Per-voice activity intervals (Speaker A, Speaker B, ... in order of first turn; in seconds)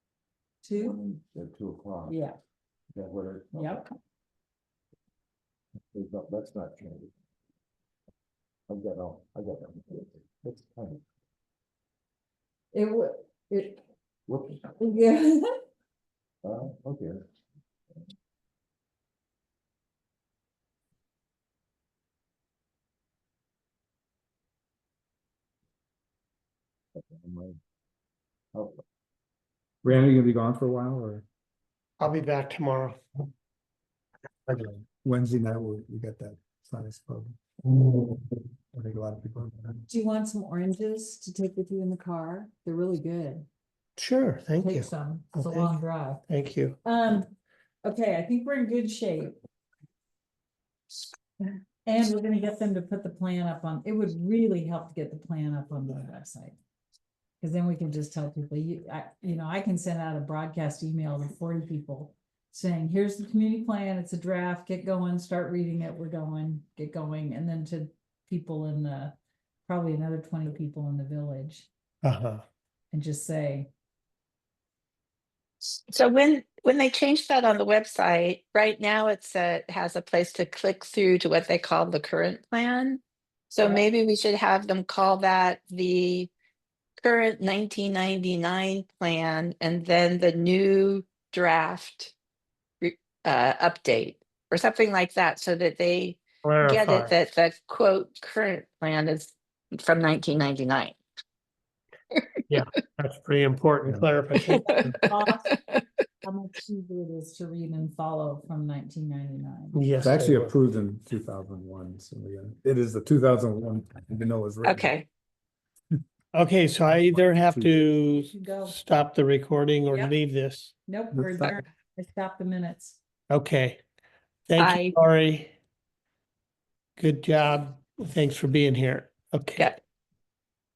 Speaker A: 0.6-1.0, 2.1-2.4, 3.5-3.9, 12.7-13.8, 14.8-15.4, 39.9-43.5, 44.6-46.2, 46.8-49.4, 51.4-56.6, 57.4-69.1, 69.7-71.7, 72.9-73.7, 104.8-105.6, 106.2-109.8, 118.1-118.8, 119.9-120.2, 120.9-123.0
Speaker B: 0.8-2.2, 3.0-3.9, 5.9-7.1, 8.7-11.0, 14.3-14.8, 16.4-17.2, 26.9-27.6, 28.5-28.8
Speaker C: 29.8-31.2, 34.8-37.4, 38.7-39.8, 110.0-114.9, 116.9-117.8
Speaker D: 32.0-33.0, 37.7-38.1, 44.0-45.8, 46.3-46.8, 72.0-72.4, 96.4-97.1, 102.5-104.6, 109.7-110.5, 116.3-120.7, 123.3-123.8, 124.5-125.5, 127.0-129.7
Speaker E: 75.9-86.3, 87.0-92.1, 92.8-101.0, 104.4-105.8, 114.6-115.1, 124.6-125.0